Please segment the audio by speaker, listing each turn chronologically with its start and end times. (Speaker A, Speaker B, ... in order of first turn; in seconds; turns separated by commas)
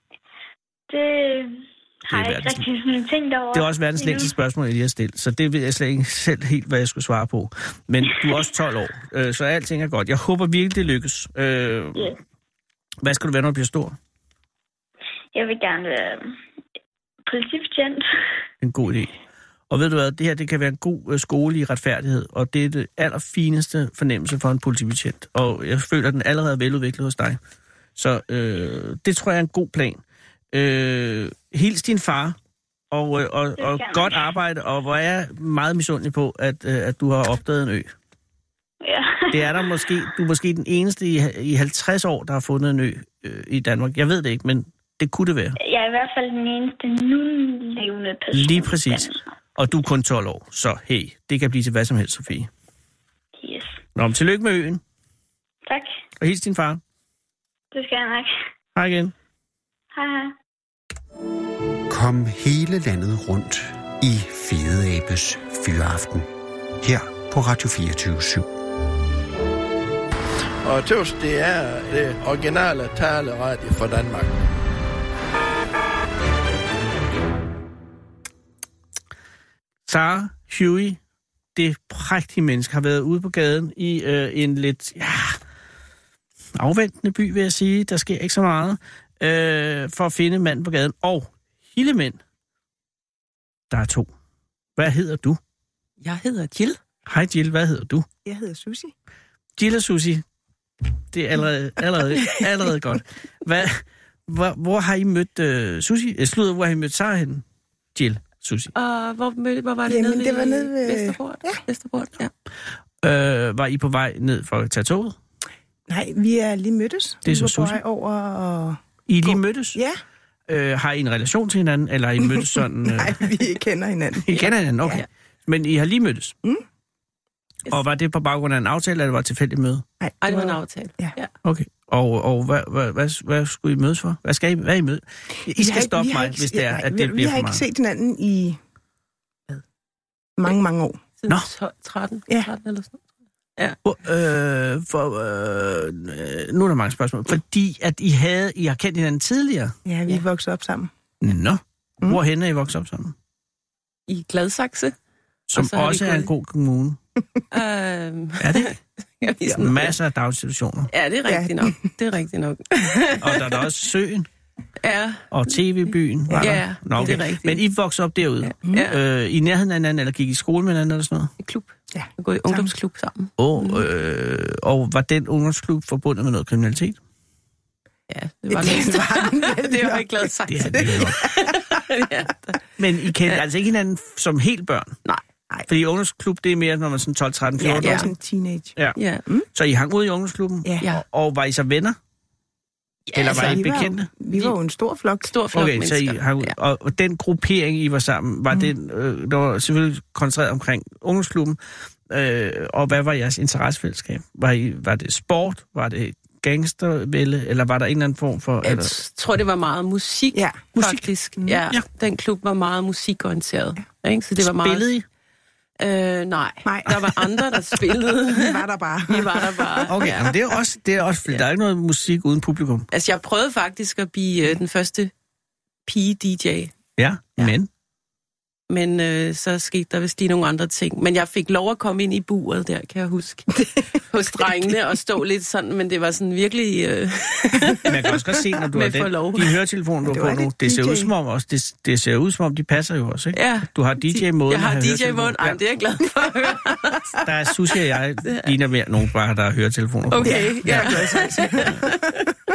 Speaker A: 0.9-4.3, Speaker B: 2.1-2.7, Speaker B: 3.5-12.2, Speaker B: 13.0-14.0, Speaker A: 15.3-16.4, Speaker A: 17.3-18.0, Speaker B: 18.6-19.1, Speaker B: 19.7-27.4, Speaker B: 28.0-32.4, Speaker B: 32.9-37.9, Speaker A: 33.6-34.2, Speaker A: 38.8-39.7, Speaker B: 39.3-45.6, Speaker A: 45.6-49.2, Speaker B: 48.3-52.5, Speaker A: 53.4-53.8, Speaker B: 54.0-54.8, Speaker B: 56.2-56.8, Speaker A: 57.7-58.3, Speaker B: 58.8-59.1, Speaker A: 59.9-60.4, Speaker C: 61.9-66.3, Speaker C: 66.8-68.5, Speaker D: 70.6-74.4, Speaker B: 79.9-81.0, Speaker B: 81.5-85.4, Speaker B: 86.6-92.2, Speaker B: 93.7-94.1, Speaker B: 94.8-95.4, Speaker E: 96.0-96.8, Speaker B: 97.0-98.1, Speaker F: 98.2-98.9, Speaker B: 99.6-100.2, Speaker B: 101.1-107.4, Speaker B: 108.0-108.7, Speaker E: 108.7-112.3, Speaker F: 109.9-111.6, Speaker B: 113.0-115.2, Speaker F: 115.9-120.0, Speaker B: 117.2-117.8, Speaker B: 119.1-119.8, Speaker B: 120.5-123.3, Speaker F: 122.3-125.0, Speaker B: 124.3-126.4, Speaker B: 127.7-129.9, Speaker F: 130.0-131.2, Speaker E: 130.2-131.3, Speaker B: 131.4-137.6, Speaker F: 135.5-138.6, Speaker F: 140.4-141.0, Speaker E: 141.2-143.0, Speaker B: 143.8-149.7, Speaker F: 149.9-150.9, Speaker B: 151.2-153.2, Speaker E: 154.1-154.9, Speaker B: 155.5-157.0, Speaker E: 155.5-156.3, Speaker E: 157.5-160.0, Speaker B: 158.4-158.8, Speaker B: 159.6-160.9, Speaker E: 160.9-163.7, Speaker F: 161.3-161.9, Speaker B: 163.2-164.3, Speaker E: 164.8-165.3, Speaker B: 165.3-171.3, Speaker E: 166.4-167.6, Speaker E: 168.4-169.0, Speaker E: 171.4-173.3, Speaker F: 171.9-172.7, Speaker B: 173.4-177.0, Speaker E: 178.1-182.6, Speaker F: 178.5-181.8, Speaker B: 180.5-181.2, Speaker B: 182.8-185.0, Speaker B: 185.7-188.1, Speaker F: 187.6-189.5, Speaker E: 187.8-188.1, Speaker E: 188.9-189.2, Speaker B: 189.5-192.0, Speaker E: 193.1-193.8, Speaker B: 193.2-194.1, Speaker F: 193.3-195.3, Speaker E: 195.2-196.6, Speaker B: 195.5-201.6, Speaker B: 202.1-209.0, Speaker E: 208.6-214.9, Speaker F: 210.3-210.7, Speaker B: 210.8-211.1, Speaker B: 214.4-215.1, Speaker E: 215.8-220.2, Speaker F: 216.6-217.0, Speaker F: 218.3-220.3, Speaker B: 219.9-222.9, Speaker E: 222.9-225.1, Speaker E: 225.9-226.7, Speaker B: 227.0-227.7, Speaker E: 228.7-238.1, Speaker F: 233.6-233.8, Speaker B: 237.9-245.6, Speaker E: 238.7-239.6, Speaker F: 240.0-241.1, Speaker E: 243.3-247.0, Speaker B: 247.2-251.9, Speaker E: 248.2-248.5, Speaker E: 250.1-252.2, Speaker F: 250.2-252.0